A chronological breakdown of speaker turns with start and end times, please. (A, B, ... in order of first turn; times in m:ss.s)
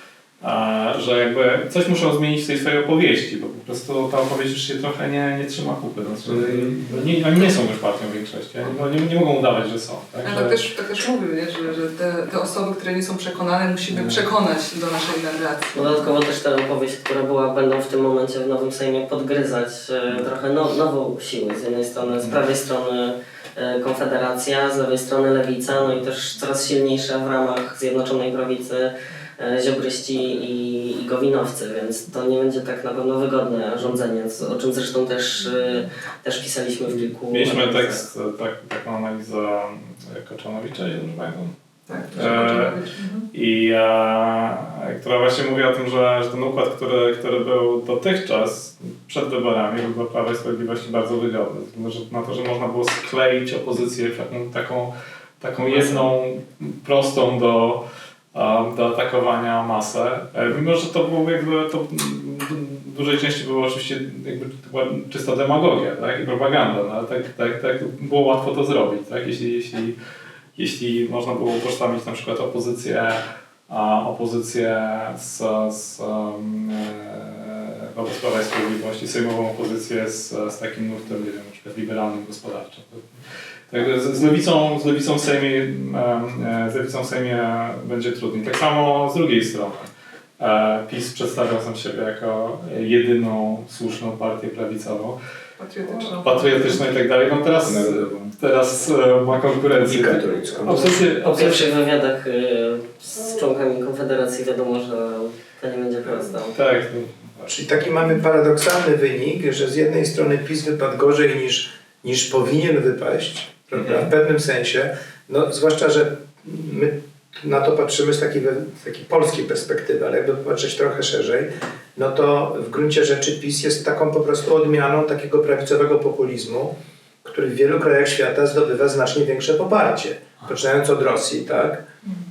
0:00.4-0:10.6 A
0:10.2-0:15.9 B
0:13.9-0:14.2 A
0:15.7-0:38.0 C
0:37.2-0:42.8 A
0:41.9-0:43.3 B
0:43.3-1:10.0 A
1:10.6-1:23.1 A
1:23.7-1:29.9 A
1:30.4-1:35.2 A
1:35.6-1:36.8 B
1:35.9-1:41.7 A
1:37.6-1:38.3 D
1:39.9-1:41.0 D
1:41.2-1:46.6 C
1:46.5-1:47.5 A
1:47.5-2:11.8 D